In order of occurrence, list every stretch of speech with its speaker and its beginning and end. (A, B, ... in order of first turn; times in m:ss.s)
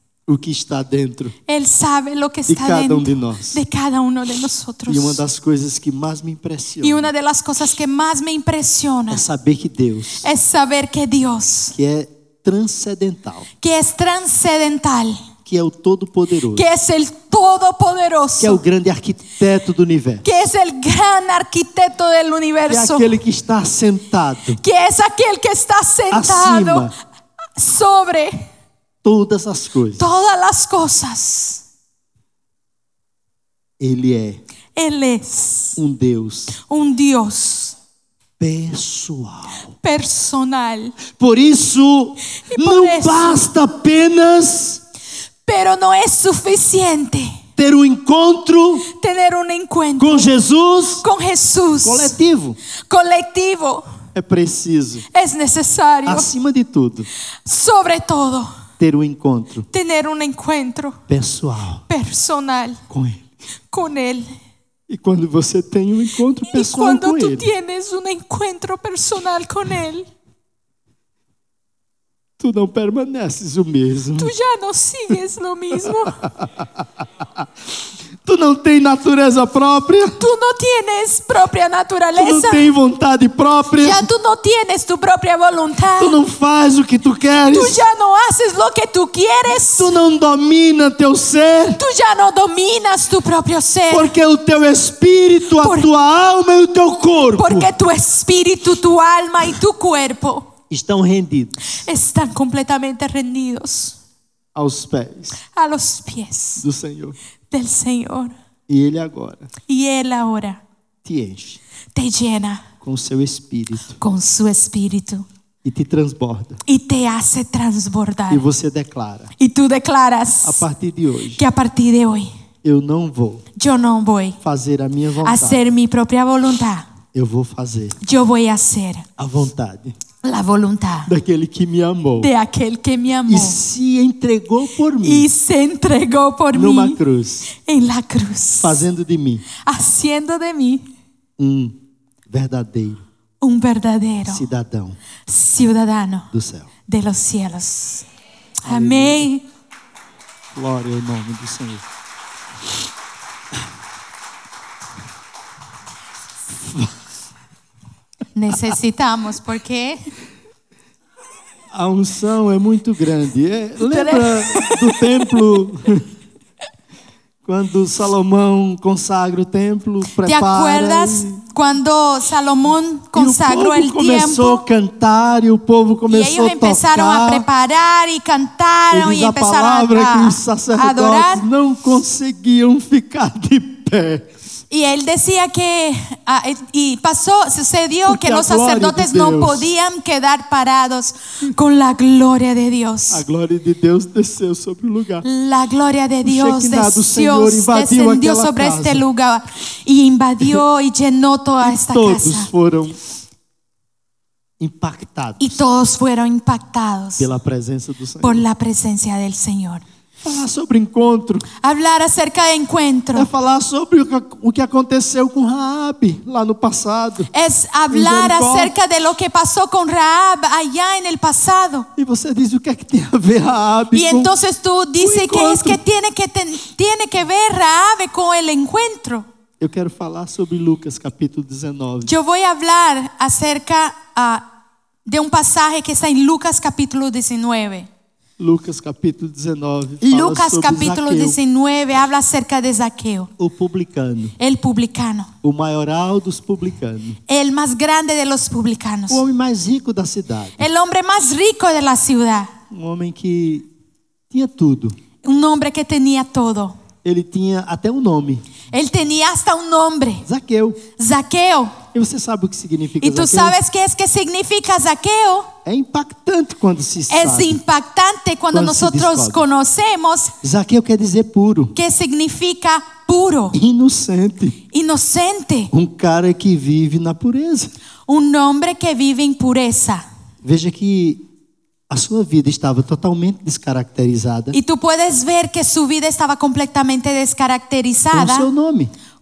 0:00.3-0:01.4 A
0:01.5-0:05.2 B
0:02.5-0:03.6 A
0:04.9-0:07.1 A
0:06.8-0:09.2 B
0:09.1-0:10.3 A
0:10.2-0:11.8 B
0:11.7-0:13.5 A
0:13.6-0:15.2 B
0:15.4-0:16.7 A
0:16.5-0:18.6 B
0:18.4-0:20.3 A
0:20.2-0:23.1 B
0:22.7-0:24.6 A
0:24.6-0:26.9 B
0:26.1-0:26.9 A
0:27.6-0:28.5 B
0:29.0-0:30.1 A
0:30.0-0:31.6 B
0:33.8-0:34.4 A
0:34.8-0:35.8 B
0:35.8-0:36.5 A
0:36.5-0:37.8 B
0:38.4-0:39.7 A
0:39.8-0:41.0 B
0:41.1-0:44.8 A
0:42.4-0:43.5 B
0:45.5-0:47.4 B
0:47.6-0:48.9 A
0:48.9-0:50.3 B
0:50.0-0:51.0 A
0:51.0-0:52.2 B
0:51.8-0:52.6 A
0:52.9-0:53.9 B
0:54.1-0:55.0 A
0:55.1-0:56.3 B
0:56.0-0:57.1 A
0:57.4-0:58.5 B
0:58.8-0:59.7 A
0:59.7-1:01.0 B
1:01.1-1:01.8 A
1:01.9-1:02.8 B
1:02.9-1:03.3 A
1:03.7-1:04.3 B
1:04.9-1:07.5 A
1:06.5-1:10.1 B
1:12.4-1:14.3 A
1:14.2-1:16.2 B
1:15.8-1:16.8 A
1:18.2-1:20.2 A
1:20.2-1:22.7 B
1:22.2-1:24.1 A
1:23.8-1:26.2 B
1:26.0-1:27.8 A
1:27.5-1:29.9 B
1:29.5-1:31.8 A
1:31.8-1:34.1 B
1:33.9-1:37.7 A
1:35.6-1:35.9 B
1:37.4-1:40.5 B
1:40.7-1:41.7 A
1:41.7-1:44.0 B
1:44.6-1:45.4 A
1:45.4-1:46.6 B
1:46.6-1:47.2 A
1:47.5-1:48.3 B
1:48.7-1:49.5 A
1:49.7-1:50.6 B
1:51.0-1:51.6 A
1:52.0-1:52.7 B
1:52.8-1:54.0 A
1:54.0-1:55.3 B
1:55.6-1:56.6 A
1:56.6-1:58.5 B
1:58.3-1:59.3 A
1:59.4-2:00.6 B
2:00.4-2:01.4 A
2:01.4-2:02.3 B
2:02.6-2:03.5 A
2:03.6-2:04.4 B
2:04.4-2:05.6 A
2:05.2-2:06.9 B
2:07.1-2:08.0 A
2:08.0-2:09.1 B
2:09.2-2:10.0 A
2:10.2-2:11.1 B
2:11.1-2:12.3 A
2:12.2-2:13.6 B
2:13.3-2:15.3 A
2:15.0-2:18.8 B
2:16.5-2:17.5 A
2:18.6-2:19.4 A
2:19.6-2:20.8 B
2:21.4-2:21.8 A
2:22.3-2:23.0 A
2:23.4-2:24.5 B
2:24.3-2:25.0 A
2:25.3-2:26.3 B
2:26.3-2:26.7 A
2:26.9-2:28.1 B
2:28.6-2:29.4 B
2:28.6-2:29.3 A
2:30.5-2:31.8 A
2:36.5-2:36.9 A
2:38.4-2:40.0 B
2:41.7-2:46.0 A
2:43.8-2:45.0 B
2:47.4-2:51.4 A
2:50.2-2:54.6 B
2:53.1-2:57.5 A
2:56.1-3:01.4 B
2:58.9-3:04.3 A
3:04.7-3:13.2 B
3:08.1-3:09.7 A
3:13.1-3:15.2 A
3:15.2-3:22.5 B
3:16.2-3:19.0 A
3:21.6-3:23.0 A
3:24.6-3:25.6 A
3:25.4-3:27.3 B
3:27.2-3:28.4 A
3:28.2-3:29.8 B
3:30.2-3:31.5 A
3:31.6-3:33.3 B
3:33.2-3:37.3 A
3:37.3-3:41.9 B
3:37.9-3:38.7 A
3:42.0-3:44.3 A
3:43.9-3:49.3 B
3:45.0-3:45.8 A
3:49.6-3:52.1 A
3:52.0-3:54.5 B
3:55.1-3:57.9 B
3:58.4-4:01.4 A
4:00.0-4:03.3 B
4:03.4-4:04.4 A
4:04.4-4:05.3 B
4:05.4-4:07.2 A
4:07.3-4:09.2 B
4:09.1-4:10.7 A
4:10.6-4:12.5 B
4:12.7-4:13.7 A
4:14.3-4:15.0 A
4:15.2-4:16.8 B
4:17.0-4:18.5 A
4:18.7-4:20.3 B
4:20.2-4:20.8 A
4:21.0-4:21.8 B
4:21.9-4:23.6 A
4:23.0-4:25.5 B
4:25.6-4:27.6 A
4:27.1-4:30.3 B
4:28.5-4:29.4 A
4:30.4-4:31.8 A
4:31.8-4:33.6 B
4:33.5-4:34.6 A
4:34.7-4:35.7 B
4:35.7-4:37.7 A
4:38.1-4:40.0 B
4:40.4-4:41.2 A
4:41.9-4:44.6 A
4:44.5-4:48.5 B
4:48.1-4:48.9 A